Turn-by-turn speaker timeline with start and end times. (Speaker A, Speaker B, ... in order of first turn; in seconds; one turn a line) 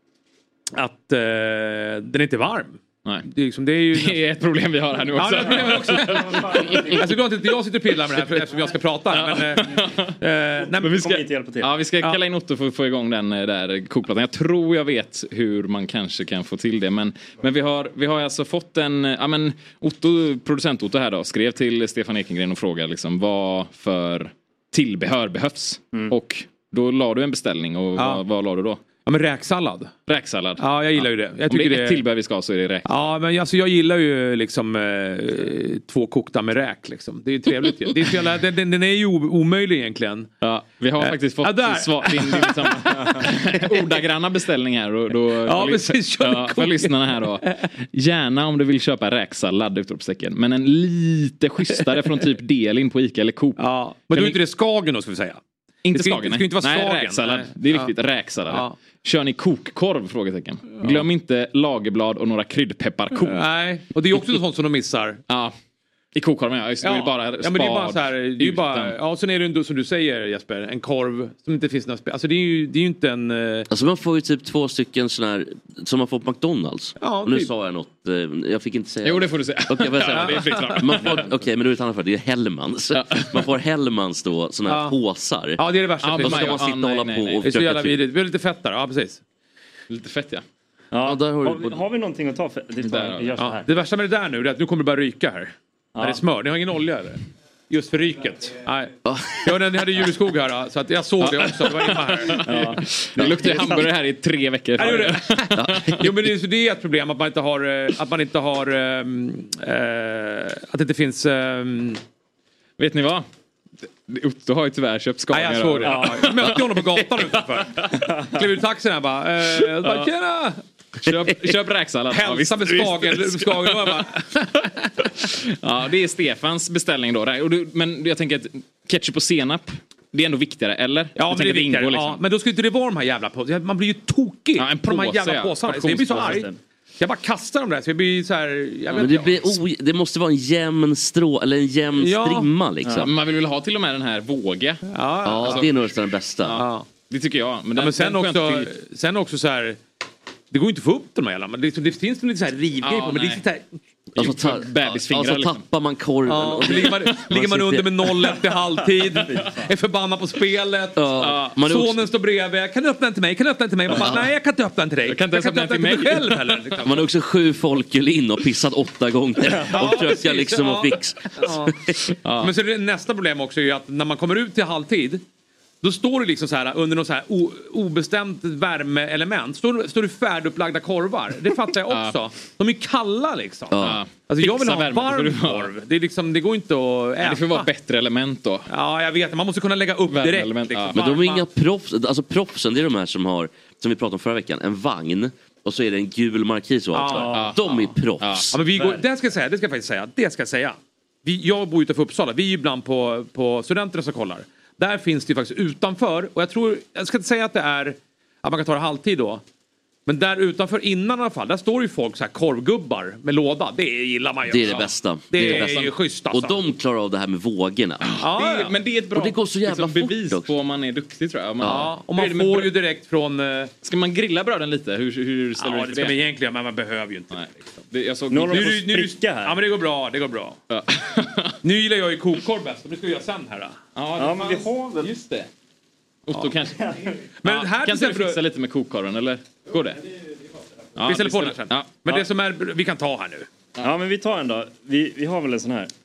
Speaker A: 0.7-4.2
Speaker B: 3.9-7.1
Speaker A: 5.1-11.1
Speaker C: 6.0-7.1
Speaker B: 9.1-10.2
Speaker B: 10.8-28.8
Speaker C: 10.8-11.7
Speaker A: 28.0-28.2
Speaker A: 29.0-29.9
Speaker B: 30.1-32.9
Speaker A: 30.6-32.0
Speaker A: 32.8-40.3
Speaker B: 40.4-54.4
Speaker A: 41.0-43.1
Speaker A: 45.4-47.7
Speaker A: 53.6-55.4
Speaker B: 55.8-63.4
Speaker A: 55.9-57.9
Speaker A: 58.5-58.7
Speaker A: 63.1-65.2
Speaker B: 65.3-65.5
Speaker B: 66.1-69.0
Speaker A: 66.8-73.7
Speaker D: 73.7-85.6
Speaker A: 77.0-77.5
Speaker B: 79.0-81.2
Speaker A: 80.1-80.8
Speaker B: 82.9-83.4
Speaker A: 84.7-85.0
Speaker A: 85.6-86.7
Speaker B: 86.0-87.6
Speaker D: 86.2-88.0
Speaker A: 87.4-89.2
Speaker B: 89.9-90.4
Speaker C: 90.9-93.7
Speaker D: 91.0-91.8
Speaker B: 92.8-93.4
Speaker A: 93.4-103.9
Speaker C: 95.9-96.2
Speaker D: 99.0-99.7
Speaker B: 101.2-106.0
Speaker C: 102.4-103.8
Speaker A: 104.8-112.0
Speaker D: 105.5-106.1
Speaker B: 112.8-113.2
Speaker B: 114.1-116.8
Speaker A: 115.3-120.6
Speaker C: 115.8-116.3
Speaker B: 119.5-120.1
Speaker B: 121.0-132.2
Speaker A: 122.1-124.9
Speaker A: 131.1-139.4
Speaker B: 134.6-136.4
Speaker C: 136.1-136.5
Speaker D: 139.0-143.1
Speaker A: 141.9-142.5
Speaker C: 142.8-143.1
Speaker B: 143.0-144.9
Speaker A: 144.8-145.7
Speaker D: 145.2-146.6
Speaker B: 145.4-145.7
Speaker B: 146.4-148.7
Speaker A: 146.6-146.8
Speaker A: 147.7-149.8
Speaker A: 150.5-153.7
Speaker B: 152.8-153.4
Speaker B: 154.2-155.6
Speaker D: 154.2-158.4
Speaker A: 156.3-167.0
Speaker C: 159.3-159.7
Speaker D: 160.9-162.1
Speaker B: 161.2-161.5
Speaker D: 163.9-164.2
Speaker B: 165.1-166.9
Speaker D: 166.8-172.0
Speaker A: 169.7-171.7
Speaker B: 172.2-172.5
Speaker A: 172.4-175.2
Speaker A: 175.8-187.7
Speaker B: 181.9-182.2
Speaker D: 183.7-184.0
Speaker B: 183.8-185.7
Speaker B: 187.2-188.7
Speaker A: 188.7-191.4
Speaker B: 190.1-191.0
Speaker D: 190.9-198.6
Speaker A: 196.9-197.5
Speaker C: 197.1-197.5
Speaker B: 197.3-198.5
Speaker A: 198.5-209.4
Speaker A: 210.1-216.6
Speaker D: 214.5-218.1
Speaker B: 215.4-215.9
Speaker B: 218.0-222.7
Speaker A: 218.2-218.7
Speaker D: 219.1-220.5
Speaker D: 221.6-221.9
Speaker A: 221.6-223.7
Speaker B: 223.8-226.2
Speaker A: 225.6-227.5
Speaker B: 227.3-228.8
Speaker C: 228.3-229.6
Speaker A: 228.5-230.6
Speaker B: 230.7-231.6
Speaker A: 231.6-233.8
Speaker B: 233.9-235.5
Speaker C: 234.2-235.1
Speaker B: 236.3-240.0
Speaker C: 236.8-237.2
Speaker A: 237.4-238.4
Speaker B: 240.9-242.2
Speaker A: 241.0-243.5
Speaker C: 243.8-245.9